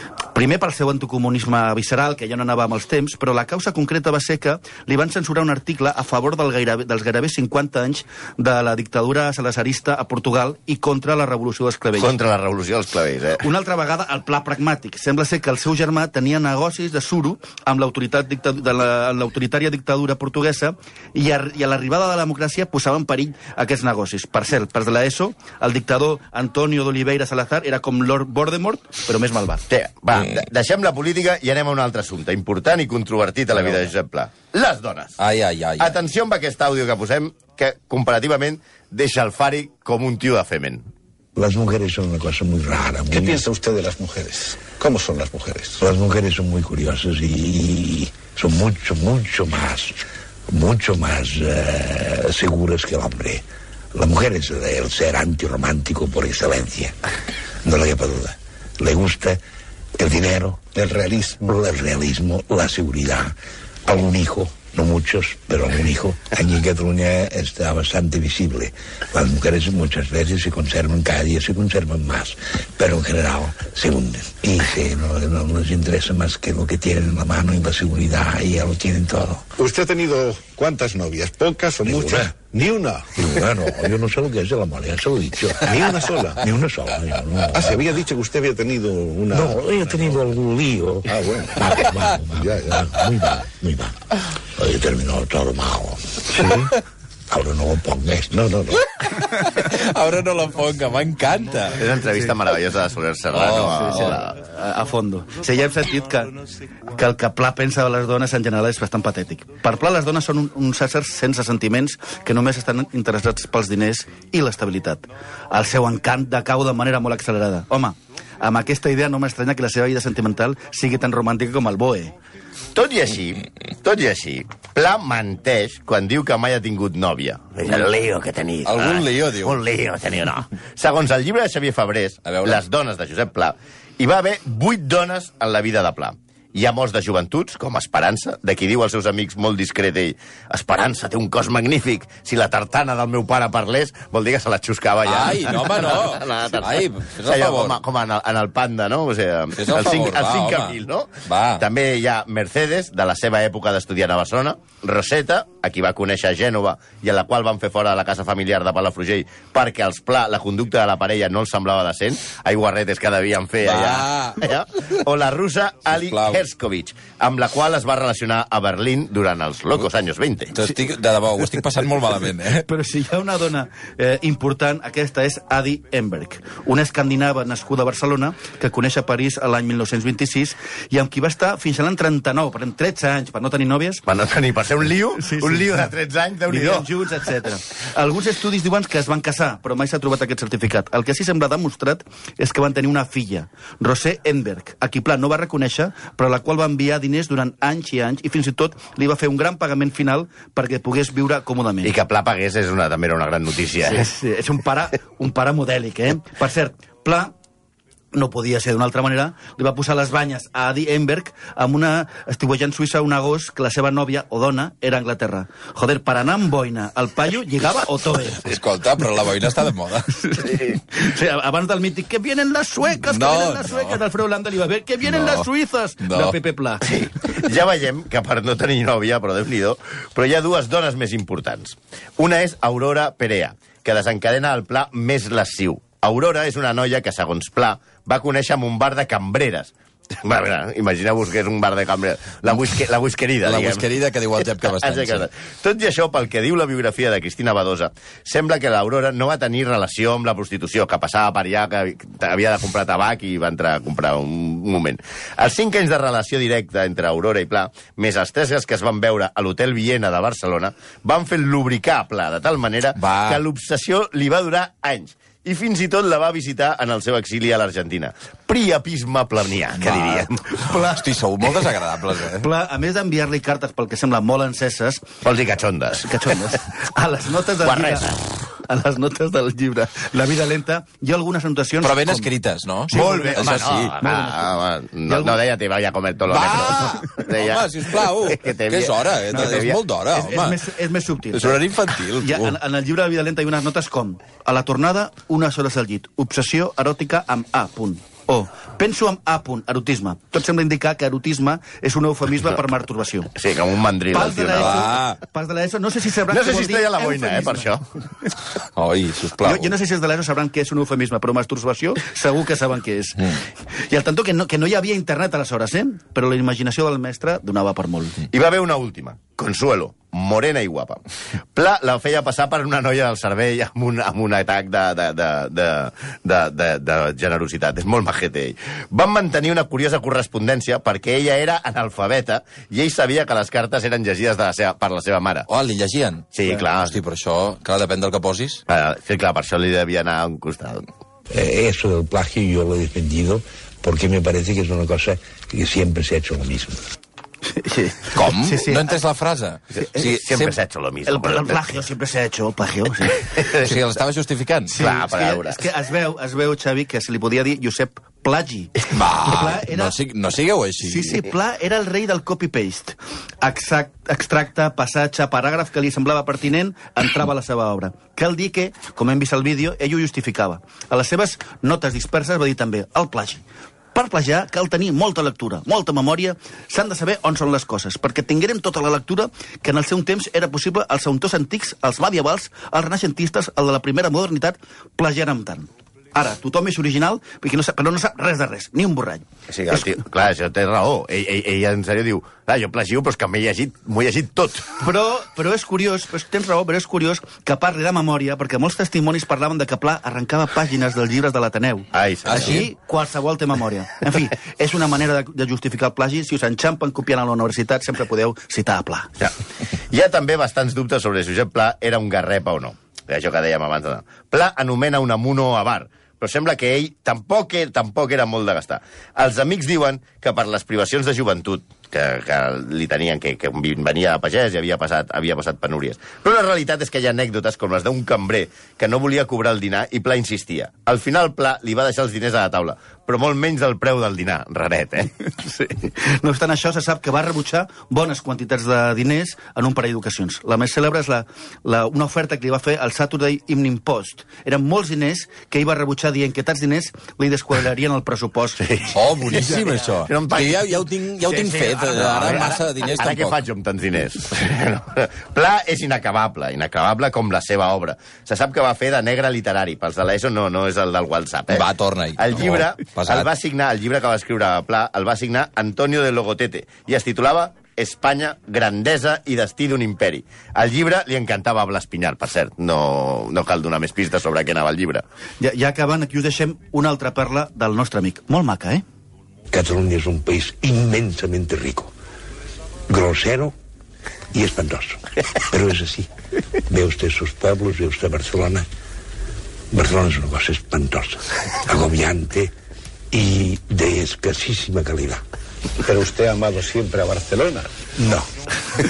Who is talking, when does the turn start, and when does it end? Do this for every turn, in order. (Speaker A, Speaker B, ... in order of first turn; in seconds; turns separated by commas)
Speaker A: 0.3-12.1, Speaker B: 12.0-13.4, Speaker A: 13.4-29.6, Speaker B: 29.7-35.2, Speaker C: 35.2-36.0, Speaker B: 35.8-40.8, Speaker D: 41.3-43.4, Speaker E: 43.1-45.8, Speaker D: 45.8-50.0, Speaker D: 50.5-56.9, Speaker D: 57.6-59.4, Speaker D: 60.0-79.5, Speaker E: 60.9-61.3, Speaker E: 79.6-83.2, Speaker D: 81.8-82.3, Speaker D: 83.1-87.8, Speaker E: 85.6-86.5, Speaker E: 87.5-89.7, Speaker D: 89.3-93.9, Speaker E: 91.1-92.9, Speaker D: 94.5-96.7, Speaker E: 96.4-96.7, Speaker D: 97.3-98.8, Speaker C: 99.1-101.8, Speaker B: 101.8-104.4, Speaker C: 103.3-104.2, Speaker A: 103.7-106.3, Speaker A: 106.9-122.1, Speaker B: 122.7-170.5, Speaker C: 128.6-129.6, Speaker C: 132.2-132.6, Speaker C: 145.0-147.8, Speaker C: 149.5-151.6, Speaker C: 163.6-164.4, Speaker C: 166.0-166.4, Speaker C: 170.5-172.7, Speaker A: 172.7-184.0, Speaker B: 184.1-186.9, Speaker A: 185.2-185.7, Speaker A: 186.5-201.9, Speaker B: 201.8-204.1, Speaker A: 203.8-207.3, Speaker A: 208.1-218.5, Speaker C: 218.4-220.2, Speaker A: 220.2-226.9, Speaker C: 223.0-224.0, Speaker C: 225.1-225.5, Speaker C: 226.0-226.4, Speaker B: 226.8-243.9, Speaker C: 243.4-245.2, Speaker B: 244.6-270.6, Speaker C: 262.9-263.4, Speaker C: 269.8-272.5, Speaker A: 270.6-271.0, Speaker A: 272.4-275.1, Speaker B: 275.2-276.3, Speaker A: 276.0-282.3, Speaker B: 277.6-278.1, Speaker C: 281.8-284.0, Speaker A: 282.9-285.4, Speaker B: 282.9-289.8, Speaker C: 286.3-290.6, Speaker A: 290.1-303.3, Speaker C: 291.3-292.5, Speaker B: 303.3-304.9, Speaker A: 304.1-307.7, Speaker C: 304.6-305.2, Speaker B: 306.3-307.8, Speaker C: 308.8-309.7, Speaker A: 309.4-318.2, Speaker B: 318.3-321.0, Speaker B: 321.5-335.5, Speaker C: 335.5-338.6, Speaker B: 336.3-337.0, Speaker B: 338.7-340.9, Speaker D: 341.3-346.8, Speaker A: 347.5-348.9, Speaker C: 348.1-350.5, Speaker B: 349.7-351.6, Speaker A: 351.1-353.3, Speaker B: 353.3-353.8, Speaker C: 353.6-354.8, Speaker A: 354.7-359.9, Speaker B: 354.8-355.6, Speaker C: 358.9-361.2, Speaker A: 360.8-373.4, Speaker A: 373.9-389.9, Speaker B: 389.5-394.8, Speaker A: 394.8-409.2, Speaker B: 401.9-402.6, Speaker C: 402.2-402.7, Speaker B: 409.9-435.1, Speaker A: 435.2-448.6, Speaker B: 448.6-450.8, Speaker C: 448.9-453.4, Speaker B: 451.3-475.0, Speaker A: 451.6-452.5, Speaker C: 461.5-463.3, Speaker A: 475.4-478.8, Speaker D: 479.5-481.9, Speaker D: 482.9-483.5, Speaker D: 484.3-486.1, Speaker D: 486.7-488.6, Speaker D: 489.7-492.5, Speaker D: 493.1-495.2, Speaker E: 495.8-497.7, Speaker D: 497.9-498.3